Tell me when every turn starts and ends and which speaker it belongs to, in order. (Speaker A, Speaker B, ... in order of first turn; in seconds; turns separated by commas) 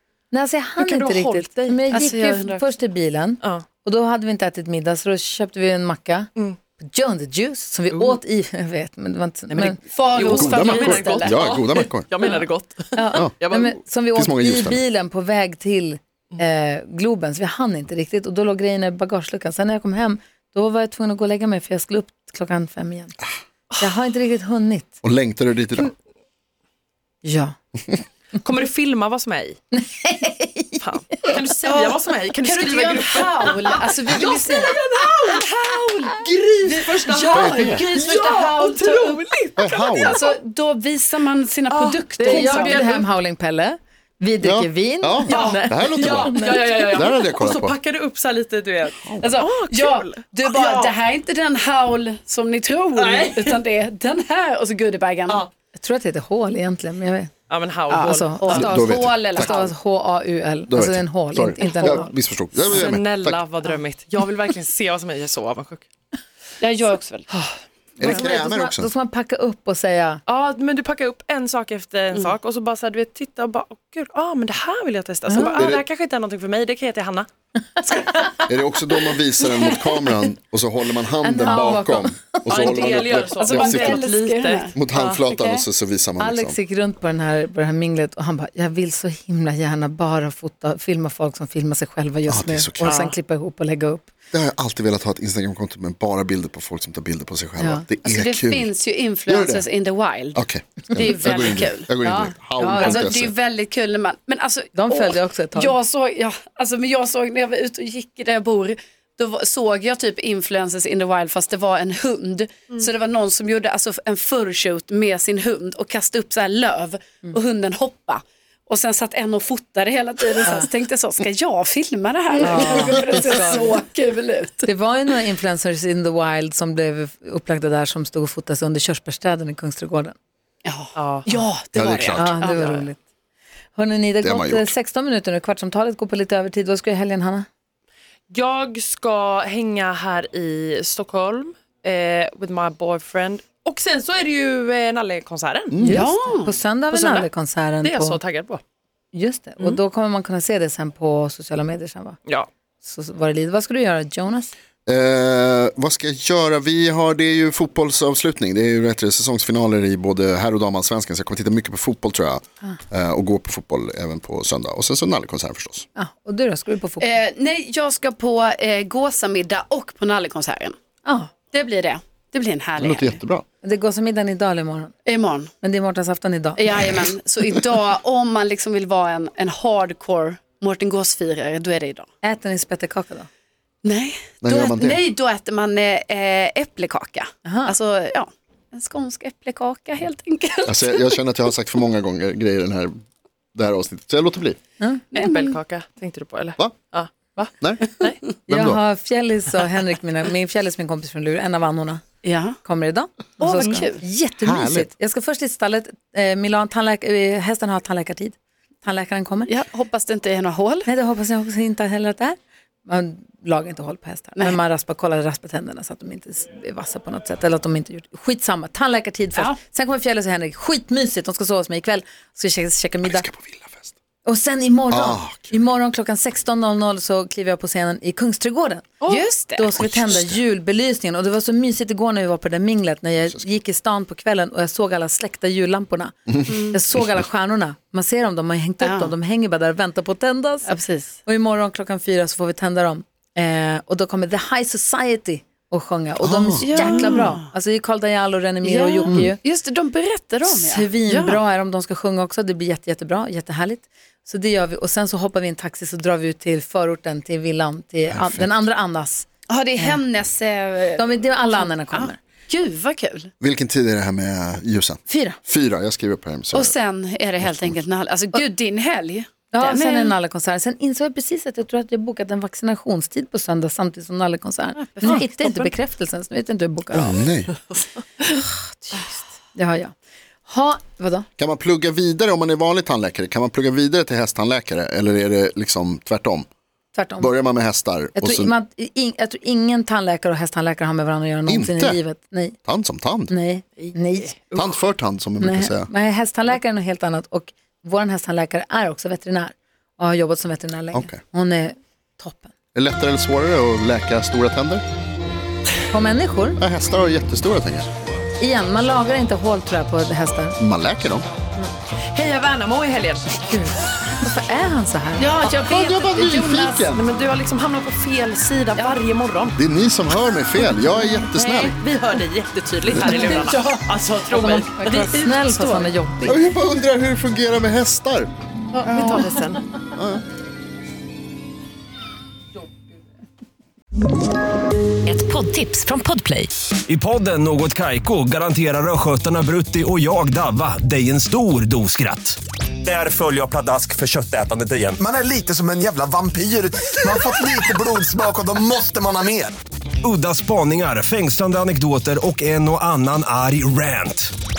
Speaker A: 0.3-9.8, Speaker B: 0.8-2.2, Speaker C: 1.9-2.6, Speaker B: 7.9-8.2, Speaker B: 9.5-13.8, Speaker C: 9.9-11.3, Speaker D: 10.2-12.1, Speaker A: 10.3-10.9, Speaker A: 12.9-23.1, Speaker D: 14.1-14.8, Speaker A: 23.8-24.9, Speaker D: 25.0-25.9, Speaker A: 27.2-27.6, Speaker B: 28.4-29.6, Speaker A: 29.7-30.8, Speaker B: 30.8-35.4, Speaker C: 31.6-34.7, Speaker C: 35.2-39.2, Speaker A: 36.2-36.7, Speaker B: 36.6-40.3, Speaker D: 37.3-37.9, Speaker D: 39.6-40.2, Speaker C: 40.0-43.1, Speaker B: 41.7-43.0, Speaker A: 42.2-46.8, Speaker D: 44.4-47.8, Speaker B: 45.3-51.0, Speaker D: 49.0-49.3, Speaker C: 49.2-55.4, Speaker B: 52.9-53.6, Speaker A: 55.8-57.3, Speaker B: 57.5-58.7, Speaker C: 57.9-59.7, Speaker A: 58.0-62.1, Speaker D: 58.5-59.6, Speaker D: 60.7-63.4, Speaker B: 62.7-65.9, Speaker C: 66.6-67.3, Speaker D: 68.0-68.9, Speaker A: 68.0-70.2, Speaker B: 70.3-77.3, Speaker D: 75.3-75.8, Speaker D: 78.5-84.0, Speaker A: 81.2-82.8, Speaker B: 82.5-85.0, Speaker C: 83.4-85.6, Speaker D: 84.8-86.6, Speaker A: 86.2-94.1, Speaker D: 92.3-93.0, Speaker B: 92.8-93.1, Speaker D: 94.3-98.7, Speaker A: 97.6-97.8, Speaker C: 98.0-101.9, Speaker D: 99.3-99.7, Speaker D: 100.3-103.3, Speaker A: 102.0-103.1, Speaker C: 102.8-124.7, Speaker A: 104.7-105.8, Speaker A: 122.4-123.7, Speaker A: 124.6-130.2, Speaker C: 130.6-132.9, Speaker B: 130.9-131.4, Speaker D: 131.7-132.3, Speaker A: 132.1-133.0, Speaker B: 132.5-132.8, Speaker A: 133.8-137.5, Speaker D: 134.2-134.7, Speaker B: 138.3-146.0, Speaker D: 145.7-146.1, Speaker A: 145.8-148.2, Speaker C: 145.8-146.6, Speaker B: 146.9-147.3, Speaker B: 147.8-148.6, Speaker A: 149.1-152.2, Speaker A: 152.8-154.5, Speaker D: 154.8-165.8, Speaker A: 165.9-167.1, Speaker C: 167.0-170.7, Speaker A: 171.0-171.3, Speaker C: 171.5-173.2, Speaker D: 172.8-173.4, Speaker A: 173.6-174.9, Speaker C: 175.1-175.5, Speaker A: 175.6-176.6, Speaker C: 176.6-182.1, Speaker A: 182.2-183.3, Speaker C: 183.8-191.1, Speaker D: 184.4-185.0, Speaker A: 187.4-187.7, Speaker D: 190.7-193.0, Speaker D: 193.5-194.6, Speaker A: 194.8-195.2, Speaker C: 195.1-195.6, Speaker B: 195.2-198.2, Speaker D: 197.6-197.9, Speaker D: 198.5-198.8, Speaker A: 198.5-202.0, Speaker C: 202.2-202.6, Speaker A: 202.6-209.5, Speaker C: 203.4-204.0, Speaker B: 203.6-203.8, Speaker D: 204.4-204.9, Speaker C: 209.4-210.9, Speaker A: 210.8-223.3, Speaker D: 223.0-223.9, Speaker A: 224.2-228.9, Speaker D: 224.9-225.6, Speaker C: 229.1-229.7, Speaker A: 229.6-240.7, Speaker D: 229.7-230.4, Speaker C: 236.5-236.8, Speaker C: 238.8-239.1, Speaker C: 240.7-241.2, Speaker A: 241.2-249.4, Speaker D: 246.2-247.2, Speaker C: 246.6-247.4, Speaker C: 248.6-251.4, Speaker A: 250.4-259.3, Speaker D: 258.1-258.5, Speaker C: 259.5-263.3, Speaker A: 261.0-262.2, Speaker D: 263.4-266.7, Speaker A: 265.1-265.4, Speaker C: 266.5-270.1, Speaker D: 267.4-267.8, Speaker A: 269.5-277.1, Speaker C: 274.8-275.7, Speaker D: 276.9-277.5, Speaker A: 278.9-279.9, Speaker A: 280.4-281.3, Speaker D: 281.4-286.5, Speaker A: 286.9-287.3, Speaker D: 287.2-288.5, Speaker A: 288.1-292.6, Speaker D: 291.5-292.0, Speaker D: 292.6-293.3, Speaker A: 293.3-294.3, Speaker B: 293.8-294.7, Speaker D: 294.5-295.9, Speaker A: 295.4-302.5, Speaker D: 300.9-301.2, Speaker D: 302.7-304.8, Speaker A: 305.9-306.6, Speaker D: 306.6-307.9, Speaker A: 308.4-310.6, Speaker D: 310.6-311.3, Speaker B: 312.1-313.4, Speaker A: 313.5-315.3, Speaker C: 315.2-316.9, Speaker D: 315.4-317.0, Speaker B: 316.9-319.6, Speaker D: 319.6-321.8, Speaker A: 321.4-321.7, Speaker B: 321.5-325.9, Speaker A: 322.9-326.5, Speaker D: 326.2-328.3, Speaker B: 328.7-329.6, Speaker A: 328.8-329.6, Speaker D: 329.9-330.2, Speaker A: 335.1-336.5, Speaker E: 336.9-345.0, Speaker F: 345.0-349.5, Speaker E: 350.0-354.3